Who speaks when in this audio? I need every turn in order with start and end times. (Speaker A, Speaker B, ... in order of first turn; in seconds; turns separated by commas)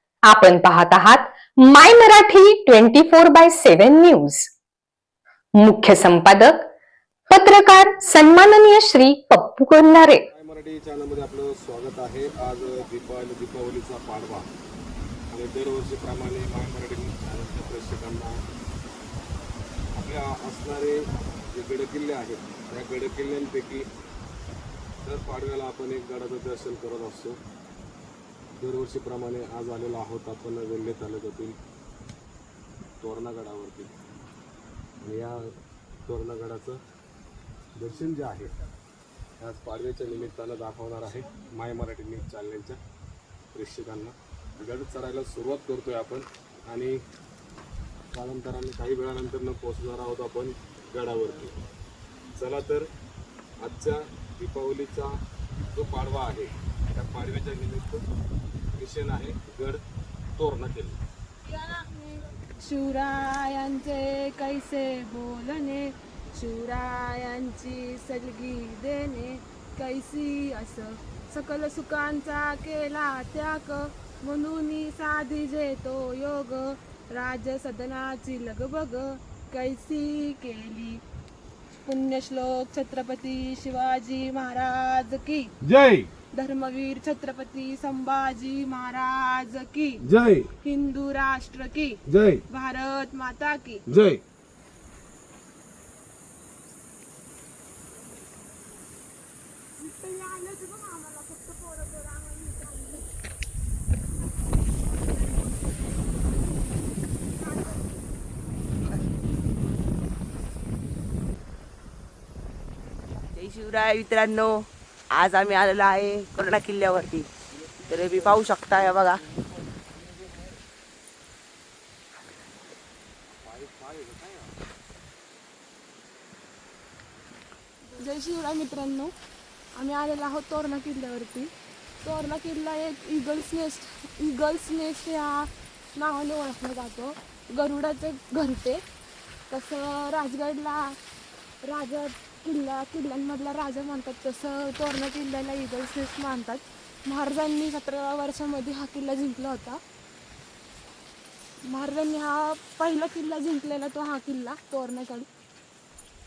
Speaker A: 0.2-4.5, Speaker A: 5.5-6.7, Speaker A: 7.3-10.2, Speaker B: 10.3-14.5, Speaker B: 15.3-18.4, Speaker B: 19.9-23.9, Speaker B: 25.0-27.4, Speaker B: 28.6-31.6, Speaker B: 33.0-33.9, Speaker B: 35.0-35.5, Speaker B: 36.1-36.8, Speaker B: 37.7-38.5, Speaker B: 39.4-42.8, Speaker B: 43.5-47.0, Speaker B: 48.1-51.6, Speaker B: 52.3-52.9, Speaker B: 53.6-55.1, Speaker B: 55.7-58.0, Speaker B: 58.8-59.8, Speaker B: 60.4-61.0, Speaker C: 61.5-62.0, Speaker C: 62.6-81.0, Speaker C: 81.8-85.5, Speaker B: 85.6-86.1, Speaker C: 86.3-90.0, Speaker B: 90.0-90.5, Speaker C: 90.6-93.8, Speaker B: 92.1-92.4, Speaker B: 93.9-94.2, Speaker C: 99.8-103.0, Speaker C: 107.4-107.9, Speaker D: 113.3-117.3, Speaker D: 117.9-119.2, Speaker C: 127.9-129.1, Speaker C: 129.7-138.8, Speaker C: 139.5-141.0, Speaker C: 141.6-149.8, Speaker C: 151.6-155.3